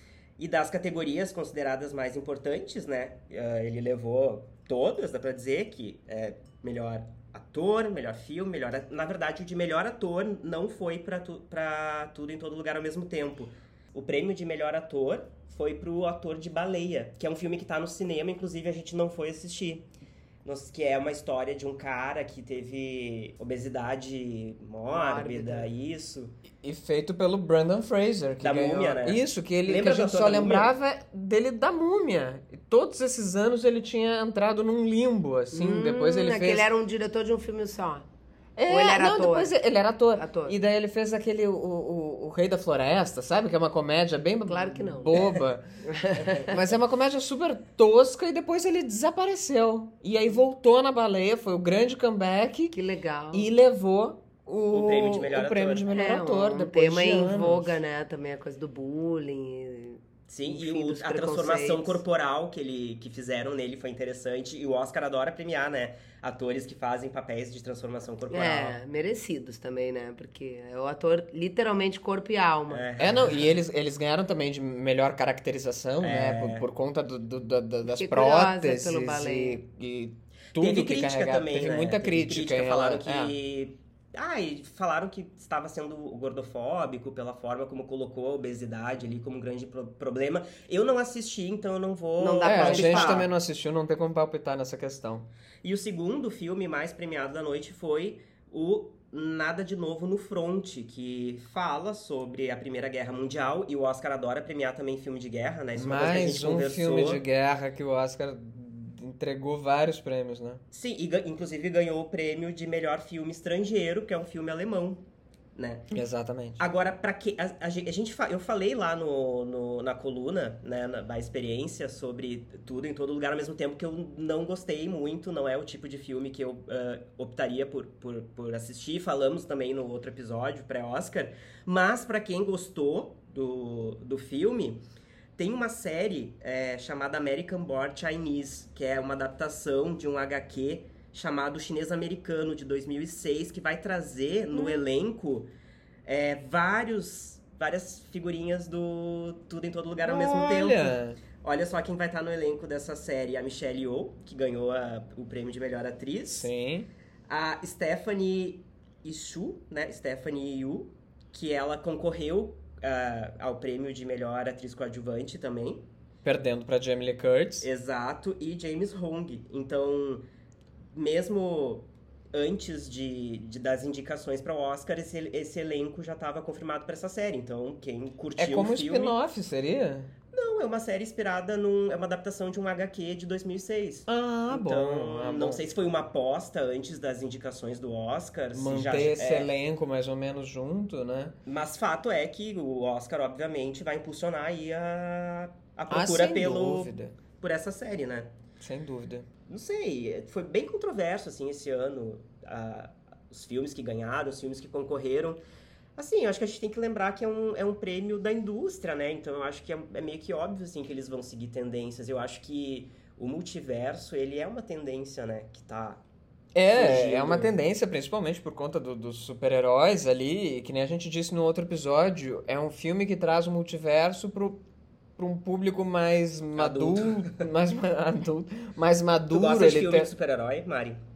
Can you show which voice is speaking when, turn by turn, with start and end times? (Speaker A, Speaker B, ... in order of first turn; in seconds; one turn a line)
Speaker A: 0.4-19.8
Speaker A: 20.4-26.3
Speaker B: 24.9-25.7
Speaker C: 26.6-36.7
Speaker A: 28.4-30.7
Speaker B: 35.5-38.0
Speaker C: 38.6-45.6
Speaker B: 38.7-39.5
Speaker B: 40.1-40.6
Speaker B: 44.4-46.6
Speaker C: 46.5-52.7
Speaker B: 52.7-53.5
Speaker C: 53.3-57.7
Speaker A: 54.7-55.9
Speaker B: 55.9-62.0
Speaker A: 60.3-68.8
Speaker B: 68.3-72.8
Speaker A: 72.7-73.5
Speaker C: 73.0-83.3
Speaker A: 76.0-76.7
Speaker B: 77.8-79.6
Speaker A: 80.5-93.3
Speaker B: 92.2-93.3
Speaker C: 92.4-95.2
Speaker A: 95.6-107.2
Speaker C: 105.8-110.6
Speaker A: 110.7-115.0
Speaker A: 115.5-115.8
Speaker C: 115.9-116.6
Speaker A: 116.6-134.8
Speaker A: 135.4-145.5
Speaker A: 146.0-156.5
Speaker C: 150.0-151.2
Speaker C: 156.3-156.9
Speaker A: 157.3-165.8
Speaker C: 166.2-167.7
Speaker A: 167.6-170.2
Speaker A: 170.9-179.1
Speaker C: 178.4-180.1
Speaker A: 180.3-189.5
Speaker C: 184.1-185.6
Speaker C: 188.5-191.3
Speaker A: 191.4-198.3
Speaker C: 195.9-197.1
Speaker C: 198.6-199.3
Speaker A: 199.5-205.4
Speaker A: 206.0-216.0
Speaker C: 216.5-224.6
Speaker A: 216.6-217.5
Speaker C: 225.2-230.1
Speaker A: 226.6-227.5
Speaker A: 229.3-231.0